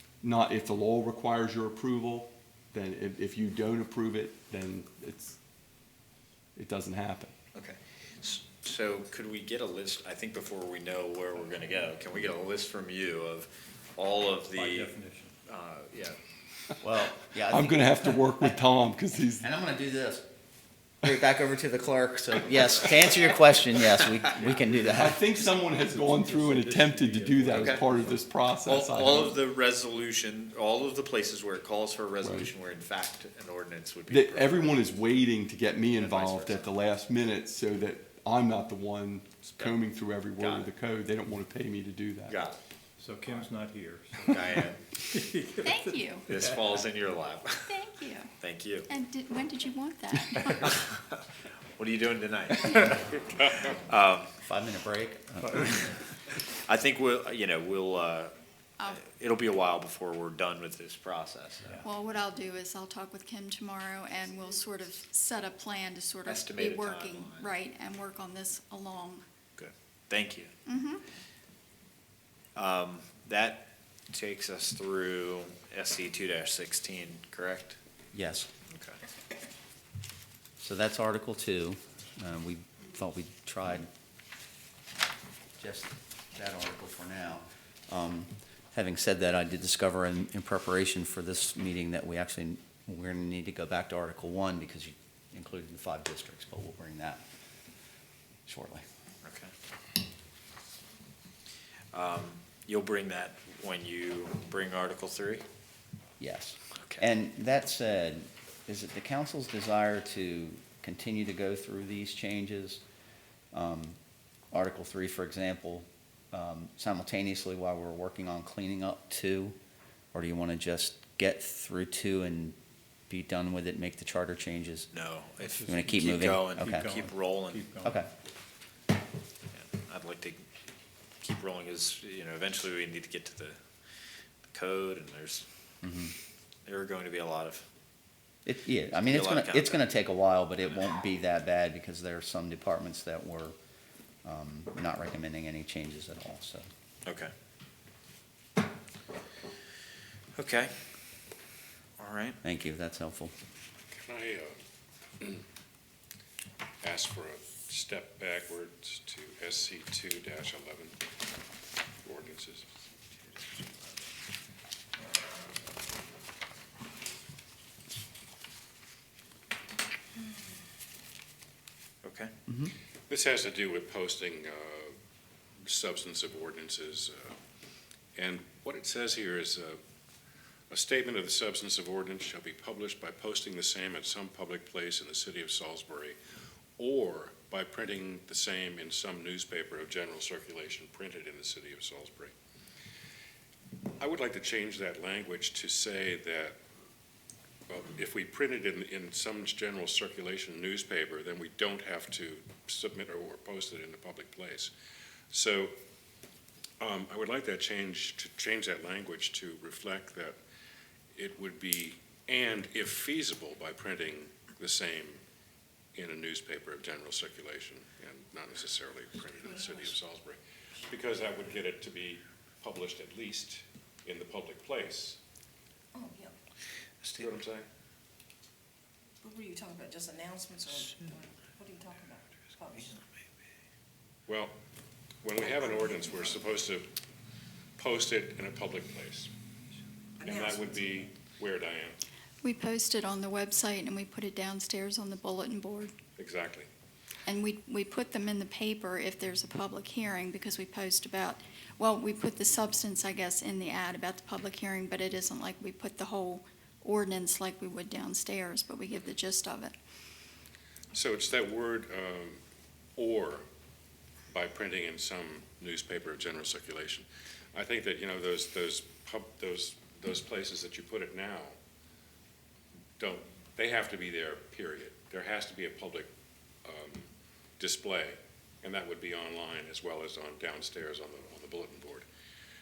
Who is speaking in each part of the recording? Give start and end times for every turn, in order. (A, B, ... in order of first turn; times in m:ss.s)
0:00.2-0:05.4 A
0:06.6-0:07.4 A
0:07.6-0:16.2 B
0:14.5-0:15.4 C
0:16.8-0:18.5 D
0:17.5-0:19.5 A
0:19.4-0:20.3 D
0:21.0-0:25.4 D
0:24.4-0:24.7 C
0:24.9-0:29.4 A
0:25.5-0:28.2 C
0:27.5-0:27.8 B
0:28.6-0:34.9 B
0:32.2-0:32.5 A
0:34.1-0:42.4 A
0:36.0-0:36.7 B
0:40.4-0:40.7 B
0:42.3-0:42.6 B
0:43.0-0:45.8 C
0:44.2-0:44.9 B
0:45.6-0:46.3 E
0:46.3-0:47.8 B
0:47.6-0:48.3 E
0:48.4-0:48.9 B
0:48.9-0:50.7 E
0:50.5-0:51.2 B
0:51.8-0:54.3 B
0:54.4-0:55.8 D
0:56.5-0:58.3 B
0:58.9-1:01.8 B
1:01.8-1:09.2 E
1:06.2-1:07.5 B
1:09.6-1:10.6 B
1:10.7-1:11.0 E
1:12.6-1:17.8 B
1:18.1-1:18.5 D
1:18.7-1:19.0 B
1:20.6-1:23.9 D
1:25.6-1:37.2 D
1:38.5-1:38.8 D
1:39.2-1:39.5 B
1:41.9-1:45.4 B
1:46.2-1:52.8 D
1:53.5-1:54.0 D
1:54.5-1:59.6 D
2:00.1-2:02.6 D
2:03.1-2:04.9 D
2:04.9-2:07.7 B
2:05.4-2:05.8 C
2:05.6-2:07.0 D
2:06.6-2:08.0 C
2:07.8-2:08.1 D
2:09.5-2:10.4 B
2:11.2-2:13.6 B
2:14.5-2:15.5 B
2:15.8-2:16.1 D
2:16.7-2:17.7 B
2:18.4-2:23.6 D
2:19.1-2:19.9 B
2:24.2-2:26.7 D
2:27.0-2:27.3 B
2:30.4-2:30.7 B
2:32.0-2:32.4 B
2:32.4-2:33.3 D
2:33.9-2:34.6 F
2:36.8-2:41.0 F
2:42.0-2:42.7 F
2:52.0-2:52.3 B
2:52.5-2:52.7 D
2:53.1-2:55.0 F
2:55.7-2:57.4 F
2:58.2-2:59.8 F
3:00.7-3:06.2 F
3:06.8-3:12.3 F
3:14.0-3:16.6 F
3:17.7-3:24.7 F
3:25.3-3:25.7 F
3:26.8-3:30.4 F
3:31.2-3:35.2 F
3:36.0-3:45.2 F
3:39.4-3:40.0 G
3:45.9-3:46.4 G
3:47.0-3:47.3 B
3:47.2-3:47.7 F
3:49.2-3:53.0 G
3:54.3-3:54.5 F
3:55.2-3:56.9 F
3:55.7-3:56.3 G
3:57.8-3:59.3 F
4:00.2-4:01.0 G
4:00.2-4:02.0 F
4:02.4-4:05.9 E
4:06.2-4:06.7 F
4:07.3-4:19.7 E
4:20.9-4:22.4 F
4:23.0-4:23.5 F
4:24.3-4:31.6 F
4:33.0-4:36.1 F
4:36.6-4:37.1 F
4:37.6-4:42.1 F